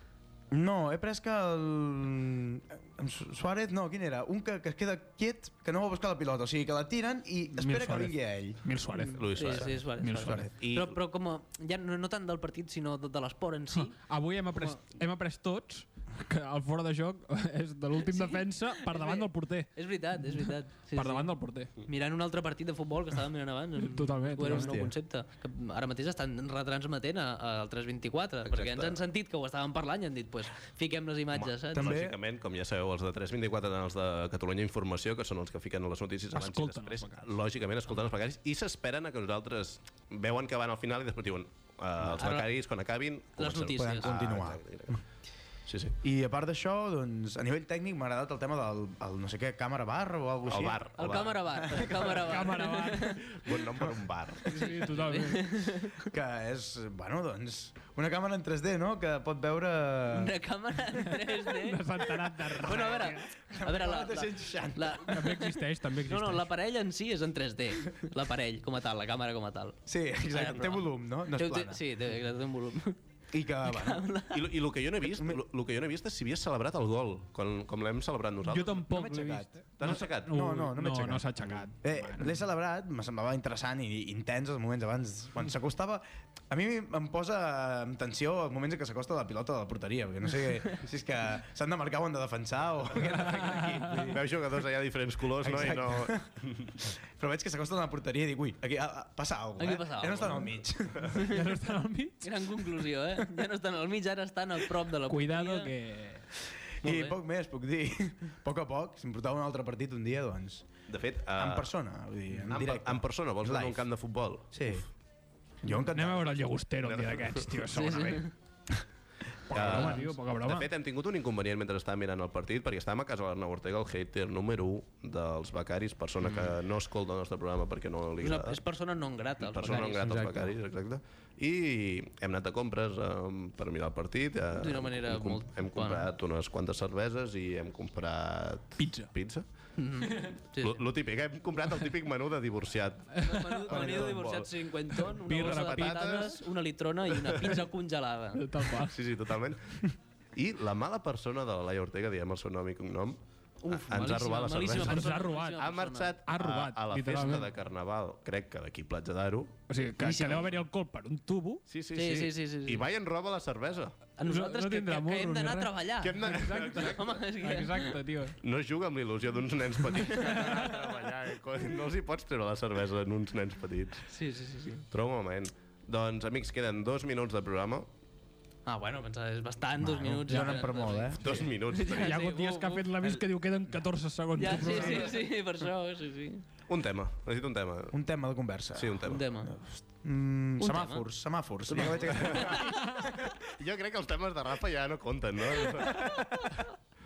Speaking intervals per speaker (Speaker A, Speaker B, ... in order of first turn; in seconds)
Speaker A: 0.5-8.6, 24.4-24.9, 31.7-32.2, 43.7-45.0, 46.0-52.4, 56.0-60.4, 62.6-65.3, 69.9-71.8, 73.3-74.1, 75.0-75.4, 78.8-94.3, 95.4-101.2, 106.8-110.7, 111.3-113.9, 114.5-114.9, 115.6-116.4, 129.6-130.6, 143.7-144.2, 179.8-181.5, 183.0-183.8, 184.4-185.2, 187.9-193.4
Speaker B: 7.6-10.5, 13.8-21.7, 23.8-24.8, 36.3-37.4, 52.2-53.5, 54.5-55.5, 61.2-63.3, 65.1-66.5, 78.5-82.3, 93.6-94.0, 101.2-102.8, 105.1-106.3, 115.9-118.3, 119.5-120.7, 138.8-139.1, 143.2-143.9, 145.1-146.4, 148.3-149.0, 154.7-155.7, 156.3-157.5, 159.7-161.7, 164.3-168.4, 170.1-170.9, 180.3-180.6, 181.8-185.2
Speaker C: 9.0-14.0, 18.0-32.0, 42.0-42.5, 43.4-44.1, 50.9-53.2, 54.5-56.0, 60.1-73.0, 73.6-74.5, 99.6-101.5, 102.2-105.7, 106.8-107.2, 117.7-118.3, 126.2-126.5, 128.2-130.1, 134.6-136.1, 139.8-140.8, 143.2-148.5, 153.6-156.2, 160.0-160.4, 161.9-162.8, 164.2-168.0, 174.1-174.8, 178.7-182.9, 184.4-186.4, 189.1-189.5, 190.6-191.1, 191.7-192.7
Speaker D: 9.2-11.0, 28.4-29.0, 31.3-45.0, 45.7-46.0, 50.5-52.1, 53.2-54.5, 74.3-78.8, 79.8-80.4, 94.0-96.8, 110.9-111.7, 112.5-114.8, 116.8-117.5, 119.5-128.6, 129.4-139.4, 140.6-144.5, 145.3-146.4, 148.8-160.5, 161.7-163.9, 166.0-167.1, 168.4-174.1, 174.9-177.9, 181.2-182.2, 186.7-188.0, 188.8-189.2, 192.1-196.7